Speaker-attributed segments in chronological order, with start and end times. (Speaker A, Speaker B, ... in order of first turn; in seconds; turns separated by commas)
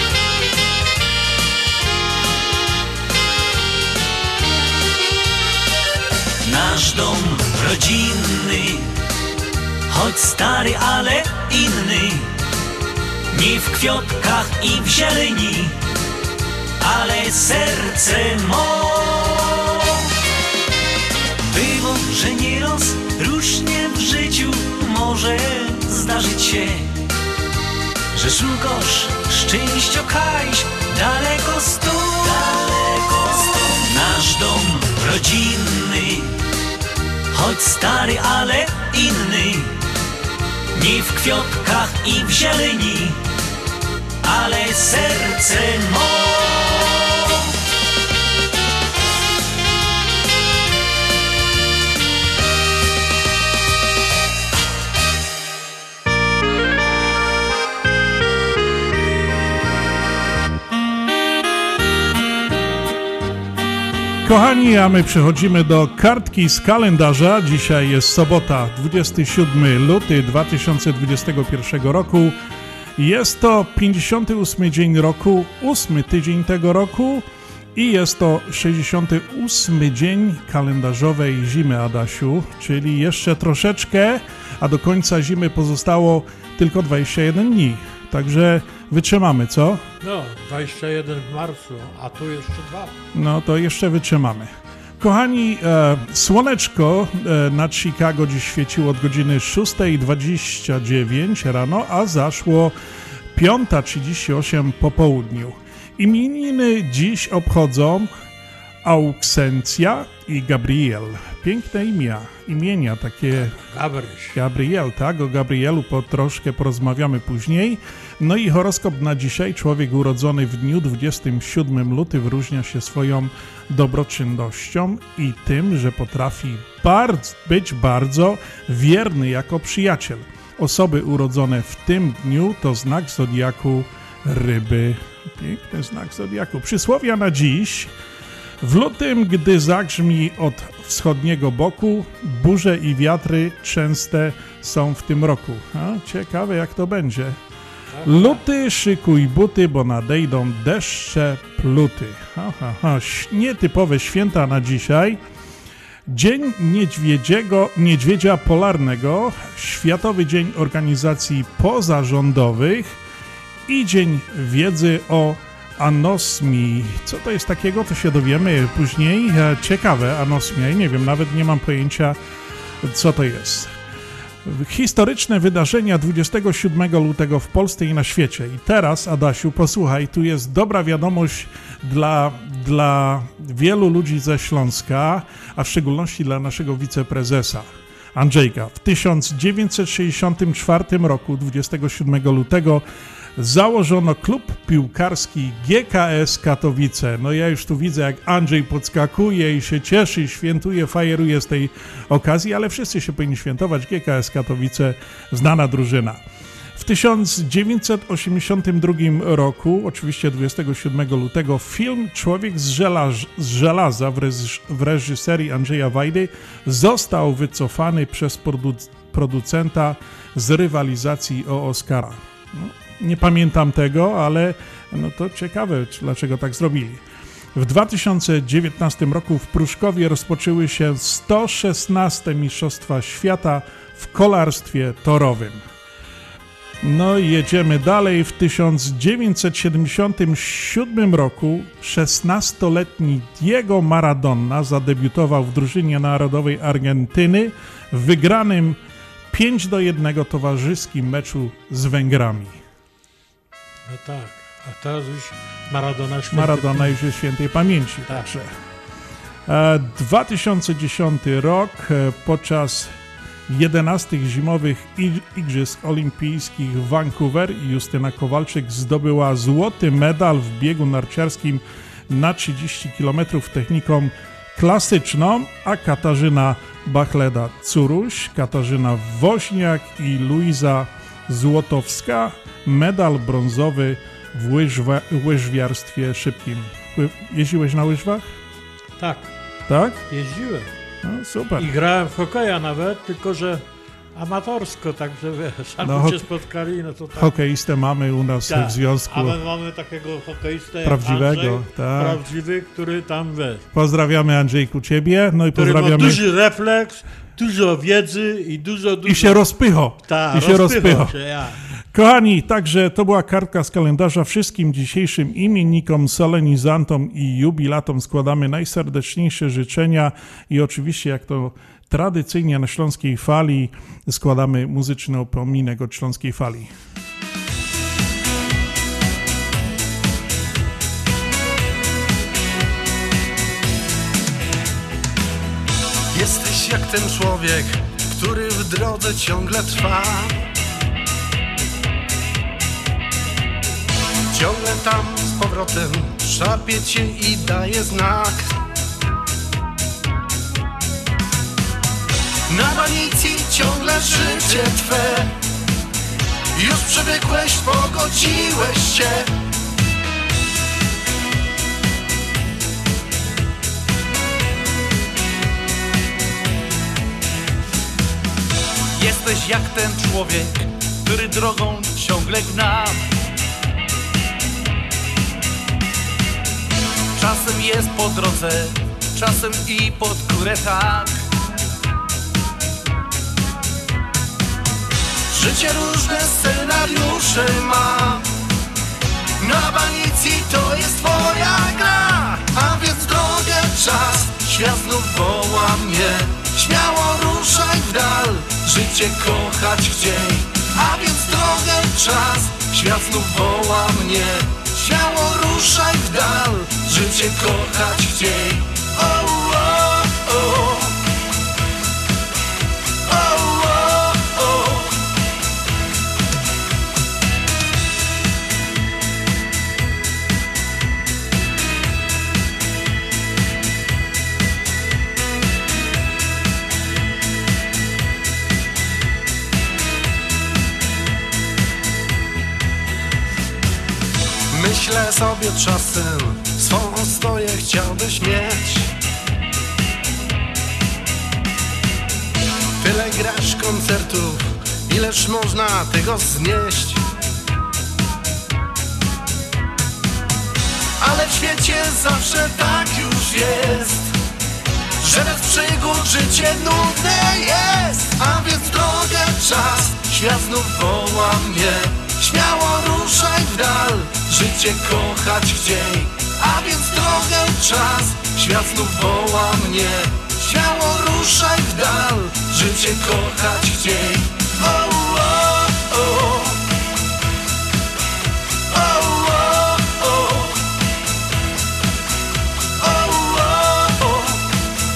Speaker A: 6.4-8.9, Speaker A: 9.9-12.3, Speaker A: 13.3-15.8, Speaker A: 16.8-20.0, Speaker A: 21.5-26.9, Speaker A: 28.1-36.4, Speaker A: 37.3-39.8, Speaker A: 40.7-43.2, Speaker A: 44.2-47.4, Speaker B: 64.2-72.3, Speaker B: 73.0-77.2, Speaker B: 77.8-89.8, Speaker C: 90.0-92.9, Speaker B: 93.1-102.7, Speaker B: 103.3-108.1, Speaker B: 108.8-113.6, Speaker C: 113.7-114.3, Speaker B: 114.3-137.9, Speaker B: 138.6-147.4, Speaker C: 147.9-148.4, Speaker B: 148.0-155.2, Speaker B: 156.1-163.0, Speaker B: 163.7-172.2, Speaker B: 172.8-173.7, Speaker B: 174.4-192.8, Speaker B: 193.4-206.2, Speaker B: 206.8-227.0, Speaker B: 227.5-235.6, Speaker B: 236.8-248.8, Speaker B: 249.3-252.6, Speaker C: 253.9-256.9, Speaker B: 256.3-258.5, Speaker B: 259.5-262.9, Speaker B: 263.5-288.3, Speaker C: 289.0-289.3, Speaker B: 289.7-290.0, Speaker C: 290.1-290.7, Speaker B: 291.0-291.7, Speaker C: 291.6-293.6, Speaker C: 294.1-297.3, Speaker B: 295.8-296.2, Speaker B: 297.1-299.4, Speaker C: 298.5-303.6, Speaker B: 300.8-302.2, Speaker B: 303.7-306.2, Speaker C: 305.5-309.4, Speaker B: 309.1-311.1, Speaker C: 310.1-311.6, Speaker B: 311.9-326.7, Speaker D: 336.1-340.4, Speaker D: 344.3-348.5, Speaker D: 352.5-355.3, Speaker D: 356.5-359.3, Speaker E: 368.9-373.0, Speaker E: 377.1-381.1, Speaker D: 385.3-388.2, Speaker D: 389.4-411.0, Speaker D: 413.1-415.0, Speaker D: 434.5-438.9, Speaker D: 442.8-447.0, Speaker D: 451.0-454.1, Speaker D: 455.0-476.6, Speaker D: 478.7-480.6, Speaker D: 482.8-484.4